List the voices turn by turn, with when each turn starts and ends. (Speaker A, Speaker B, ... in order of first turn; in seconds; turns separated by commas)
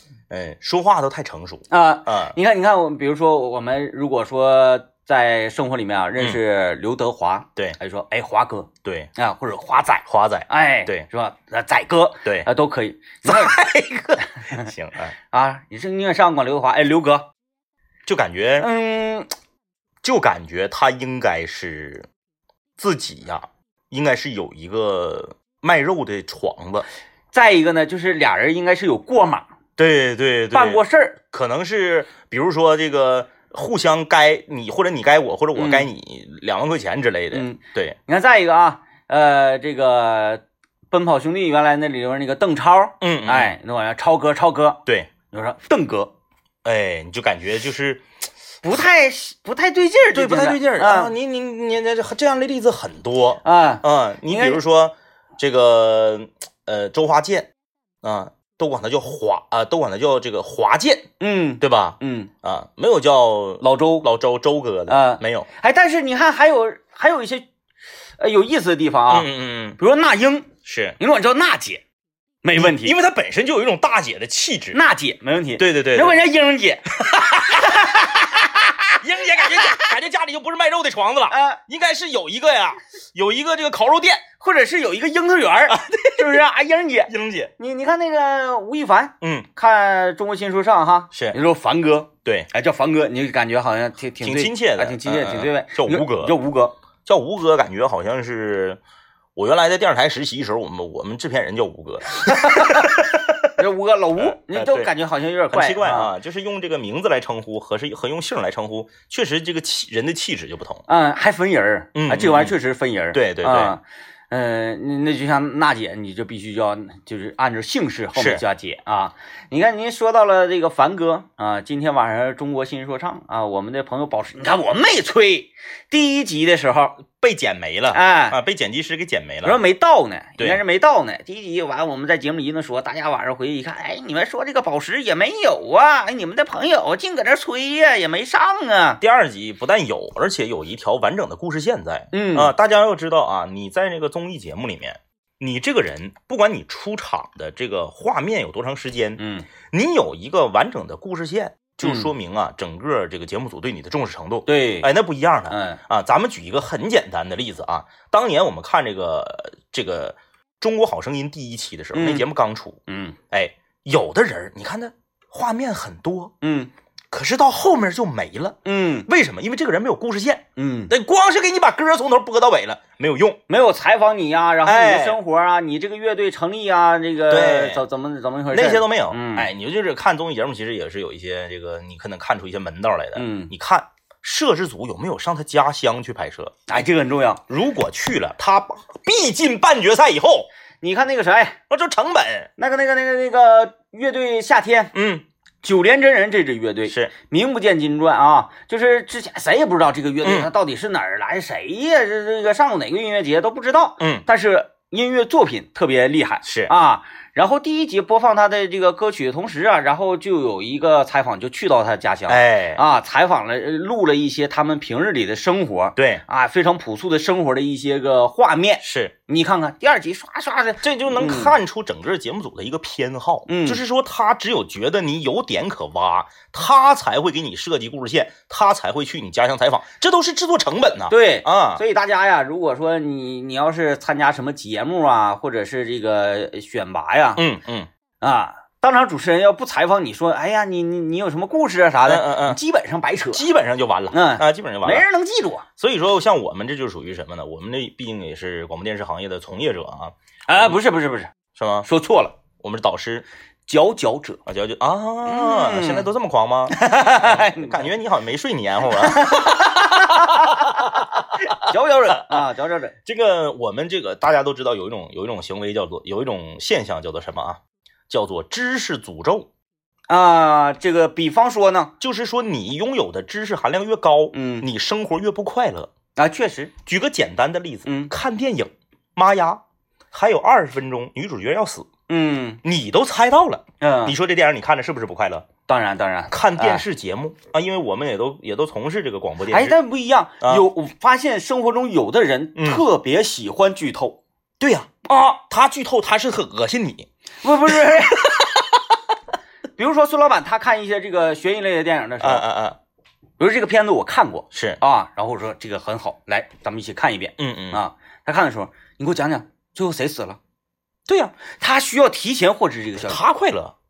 Speaker A: 0.3-2.4, Speaker B: 1.7-13.6, Speaker A: 8.8-9.1, Speaker A: 10.1-11.1, Speaker A: 13.2-15.2, Speaker B: 14.3-14.7, Speaker B: 15.3-17.3, Speaker A: 18.1-18.7, Speaker B: 18.6-19.3, Speaker A: 20.0-22.1, Speaker A: 22.8-26.9, Speaker B: 27.3-29.5, Speaker A: 29.8-38.0, Speaker B: 30.5-31.2, Speaker B: 35.5-35.9, Speaker B: 37.3-46.1, Speaker A: 43.0-43.6, Speaker A: 46.6-48.0, Speaker B: 48.6-51.1, Speaker A: 50.1-57.5, Speaker B: 53.4-54.6, Speaker A: 58.0-65.5, Speaker B: 61.2-62.3, Speaker B: 63.6-64.1, Speaker B: 64.9-67.5, Speaker B: 68.2-71.8, Speaker A: 69.1-69.8, Speaker A: 70.7-71.0, Speaker B: 72.4-73.0, Speaker A: 72.6-74.8, Speaker B: 74.7-78.9, Speaker A: 75.6-76.2, Speaker A: 77.0-84.2, Speaker B: 79.5-79.8, Speaker B: 81.3-81.6, Speaker B: 84.4-96.8, Speaker A: 85.7-86.3, Speaker A: 87.1-87.5, Speaker A: 89.2-89.5, Speaker A: 91.1-91.4, Speaker A: 94.2-96.4, Speaker A: 97.1-98.8, Speaker A: 99.4-103.5, Speaker B: 102.2-102.9, Speaker B: 103.6-106.1, Speaker A: 104.2-104.9, Speaker A: 105.5-110.8, Speaker B: 110.9-127.0, Speaker A: 112.0-112.6, Speaker A: 113.1-113.8, Speaker A: 118.2-118.4, Speaker A: 127.1-129.6, Speaker B: 127.9-128.4, Speaker B: 129.4-139.0, Speaker A: 139.0-149.2, Speaker B: 142.1-142.5, Speaker B: 149.2-149.5, Speaker A: 149.7-162.8, Speaker B: 151.8-152.1, Speaker B: 154.5-154.9, Speaker B: 155.5-155.8, Speaker B: 161.9-162.3, Speaker B: 162.9-163.2, Speaker A: 163.3-166.3, Speaker B: 166.4-166.7, Speaker A: 167.1-173.4, Speaker B: 168.7-169.1, Speaker B: 170.6-170.9, Speaker B: 173.5-179.5, Speaker A: 174.7-175.2, Speaker A: 177.3-177.8, Speaker A: 178.5-186.8, Speaker B: 183.2-183.5, Speaker B: 186.7-187.4, Speaker A: 187.5-190.5, Speaker B: 190.8-191.6, Speaker A: 191.7-192.5, Speaker B: 192.6-194.9, Speaker A: 194.9-195.2, Speaker B: 195.6-221.6, Speaker A: 200.2-200.5, Speaker A: 204.0-204.3, Speaker A: 206.4-206.7, Speaker A: 212.3-212.8, Speaker A: 216.0-216.2, Speaker A: 218.8-219.1, Speaker A: 220.8-231.8, Speaker B: 223.5-223.8, Speaker B: 231.1-237.4, Speaker A: 237.4-237.9, Speaker B: 238.2-243.5, Speaker A: 242.1-242.6, Speaker A: 243.3-245.1, Speaker B: 244.1-245.7, Speaker A: 245.8-250.8, Speaker B: 250.5-251.3, Speaker A: 251.6-251.9, Speaker B: 251.8-252.4, Speaker A: 252.6-253.3, Speaker B: 253.7-254.4, Speaker A: 254.5-261.7, Speaker B: 255.2-256.1, Speaker B: 256.7-257.9, Speaker B: 258.9-260.9, Speaker B: 261.4-262.9, Speaker A: 263.1-269.5, Speaker B: 270.1-271.9, Speaker A: 272.0-275.9, Speaker B: 274.3-274.7, Speaker B: 276.2-276.7, Speaker A: 276.8-281.9, Speaker B: 277.9-278.1, Speaker B: 282.1-282.6, Speaker A: 282.6-285.5, Speaker B: 283.8-284.2, Speaker B: 285.7-286.8, Speaker A: 286.3-289.8, Speaker B: 289.5-294.2, Speaker A: 290.4-290.7, Speaker A: 292.6-292.8, Speaker A: 294.6-294.9, Speaker B: 295.1-295.4, Speaker A: 295.5-297.1, Speaker B: 297.4-298.5, Speaker A: 297.7-298.6, Speaker B: 299.8-302.4, Speaker A: 302.2-302.8, Speaker B: 303.4-310.4, Speaker A: 304.5-304.8, Speaker A: 307.4-307.8, Speaker A: 311.1-311.4, Speaker B: 311.4-313.2, Speaker A: 313.0-313.7